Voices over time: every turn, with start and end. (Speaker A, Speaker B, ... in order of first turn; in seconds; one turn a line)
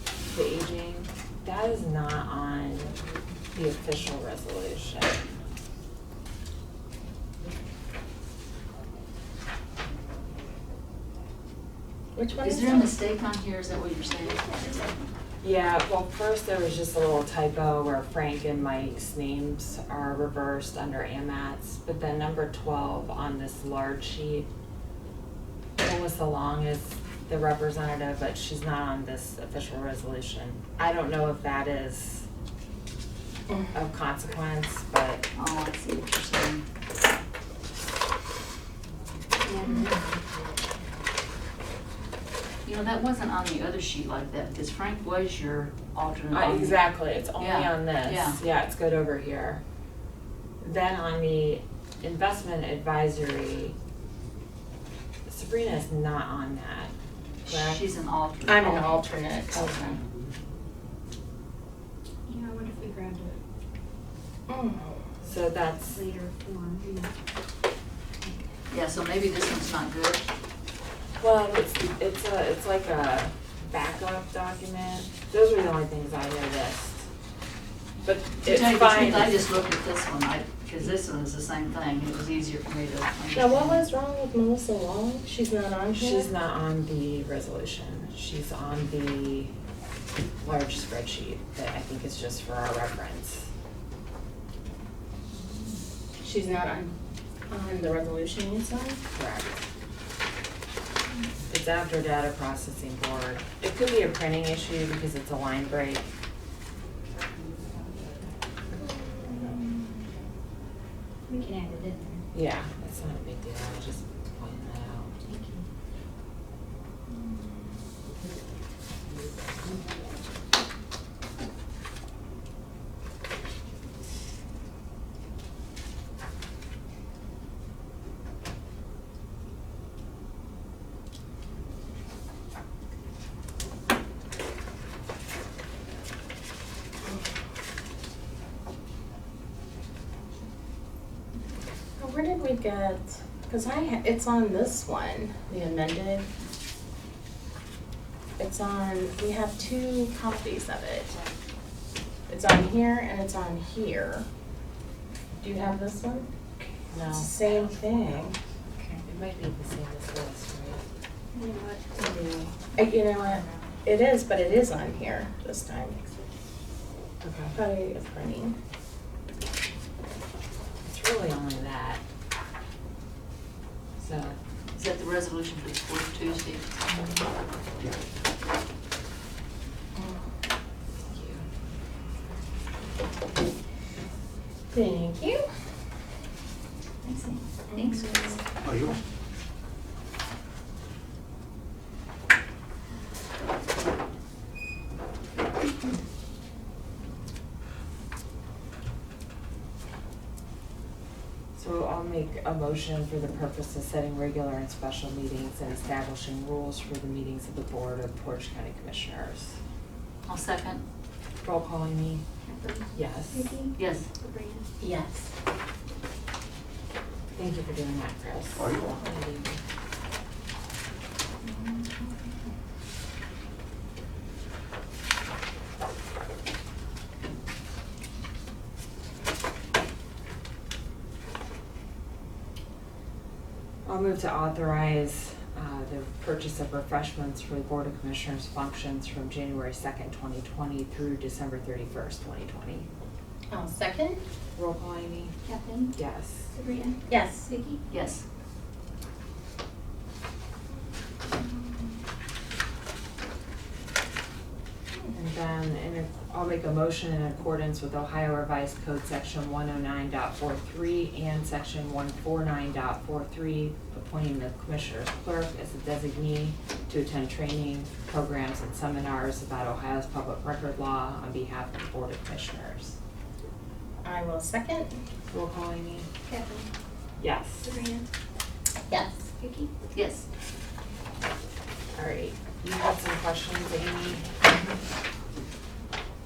Speaker A: 0.3-2.9
Speaker A: 3.5-5.3
Speaker B: 12.2-12.9
Speaker C: 12.4-14.4
Speaker D: 14.4-15.0
Speaker A: 15.4-24.5
Speaker A: 25.8-32.3
Speaker A: 33.7-35.3
Speaker C: 35.4-36.6
Speaker D: 39.4-40.0
Speaker C: 42.6-46.9
Speaker A: 46.3-49.6
Speaker C: 47.4-48.4
Speaker A: 50.6-53.8
Speaker A: 55.3-56.9
Speaker C: 57.5-59.0
Speaker A: 57.5-57.8
Speaker B: 58.5-60.0
Speaker D: 62.3-63.4
Speaker B: 64.5-65.0
Speaker A: 65.2-66.0
Speaker D: 65.9-67.1
Speaker C: 68.7-70.2
Speaker A: 71.2-77.1
Speaker A: 78.0-79.5
Speaker C: 78.4-83.8
Speaker B: 83.3-86.3
Speaker A: 85.9-89.5
Speaker A: 90.4-93.5
Speaker B: 96.2-96.9
Speaker B: 97.5-99.0
Speaker A: 99.1-99.6
Speaker A: 101.5-106.1
Speaker B: 108.8-109.7
Speaker D: 111.3-112.2
Speaker A: 112.3-115.2
Speaker D: 115.2-115.7
Speaker B: 142.0-146.3
Speaker B: 148.4-151.2
Speaker B: 152.3-154.3
Speaker B: 155.4-156.3
Speaker A: 156.9-157.7
Speaker B: 156.9-158.4
Speaker A: 159.0-160.8
Speaker D: 161.3-161.9
Speaker B: 162.0-166.1
Speaker A: 167.2-167.6
Speaker B: 167.5-168.6
Speaker A: 170.8-172.0
Speaker A: 174.0-174.4
Speaker C: 174.8-176.7
Speaker B: 179.9-180.2
Speaker A: 181.0-181.5
Speaker B: 184.7-185.4
Speaker C: 187.0-187.4
Speaker B: 187.7-188.4
Speaker D: 187.7-188.2
Speaker A: 201.6-209.6
Speaker C: 210.2-210.8
Speaker A: 211.4-212.2
Speaker D: 212.5-214.7
Speaker A: 212.9-213.5
Speaker C: 213.8-214.1
Speaker B: 214.8-215.3
Speaker A: 217.3-219.6
Speaker B: 221.5-222.1
Speaker A: 233.8-242.9
Speaker B: 243.5-244.2
Speaker A: 244.6-245.3
Speaker D: 245.4-245.9
Speaker A: 245.9-246.5
Speaker D: 246.5-247.8
Speaker B: 247.1-247.5
Speaker C: 247.9-248.2
Speaker A: 255.1-273.0
Speaker B: 274.0-274.9
Speaker A: 275.3-276.1
Speaker D: 276.3-276.7
Speaker A: 277.2-277.7
Speaker D: 277.6-278.1
Speaker B: 278.9-279.2
Speaker D: 279.4-279.7
Speaker C: 279.9-280.3
Speaker A: 281.9-284.8